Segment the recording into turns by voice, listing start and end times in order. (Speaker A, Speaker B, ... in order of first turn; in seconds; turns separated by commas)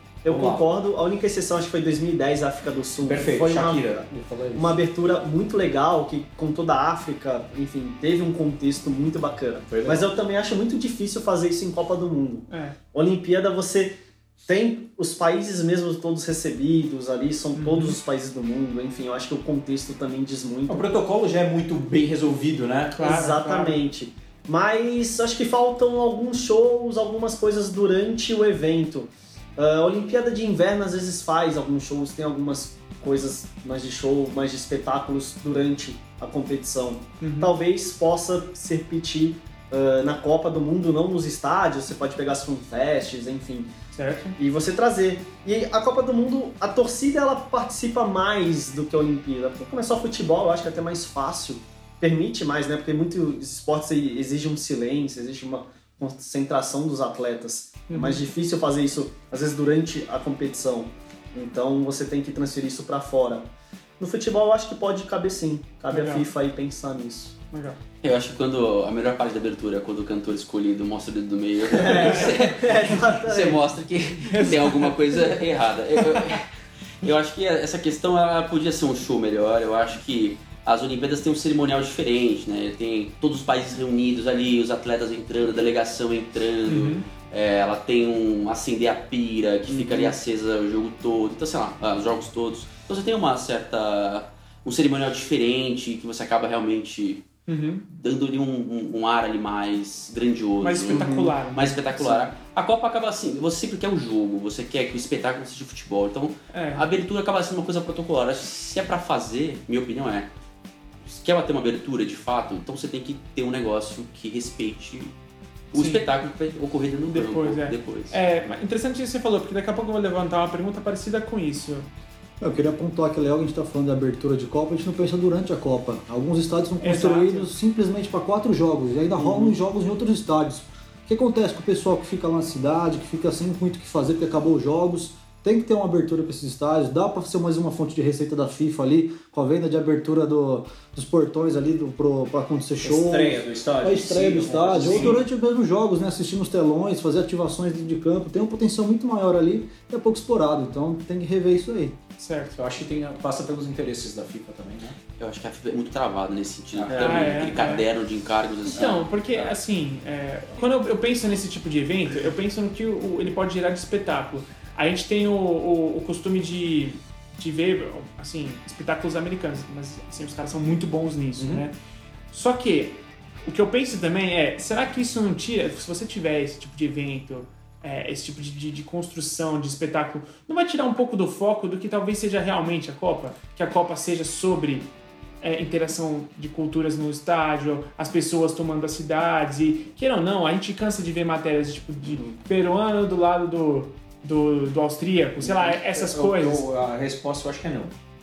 Speaker A: 0.2-4.0, Speaker B: 0.2-0.7, Speaker B: 3.0-4.8, Speaker A: 4.5-20.9, Speaker B: 9.7-10.1, Speaker C: 12.5-12.8, Speaker C: 17.5-18.0, Speaker B: 20.7-23.0, Speaker C: 23.0-23.8, Speaker A: 23.0-43.7, Speaker C: 37.2-37.5, Speaker C: 43.9-44.4, Speaker A: 44.4-67.4, Speaker C: 57.9-58.2, Speaker C: 65.9-66.3, Speaker C: 67.5-67.8, Speaker D: 68.0-76.5, Speaker A: 71.7-73.6, Speaker C: 71.9-72.3, Speaker C: 74.2-75.0, Speaker D: 77.0-97.2, Speaker C: 86.7-87.1, Speaker C: 97.5-97.8, Speaker D: 97.9-110.3, Speaker C: 100.6-102.3, Speaker A: 100.9-101.3, Speaker C: 106.5-106.8, Speaker D: 111.0-115.1, Speaker D: 115.7-118.2, Speaker C: 115.7-116.0, Speaker C: 117.1-121.9, Speaker E: 122.4-152.0, Speaker C: 126.8-127.5, Speaker B: 142.8-145.2, Speaker C: 144.9-145.2, Speaker C: 152.2-152.6, Speaker B: 152.6-155.0, Speaker D: 155.2-159.5, Speaker B: 156.8-157.5, Speaker C: 157.0-157.8, Speaker C: 158.7-171.7, Speaker B: 171.4-171.7, Speaker C: 172.3-196.7, Speaker A: 192.1-192.4, Speaker B: 195.4-197.9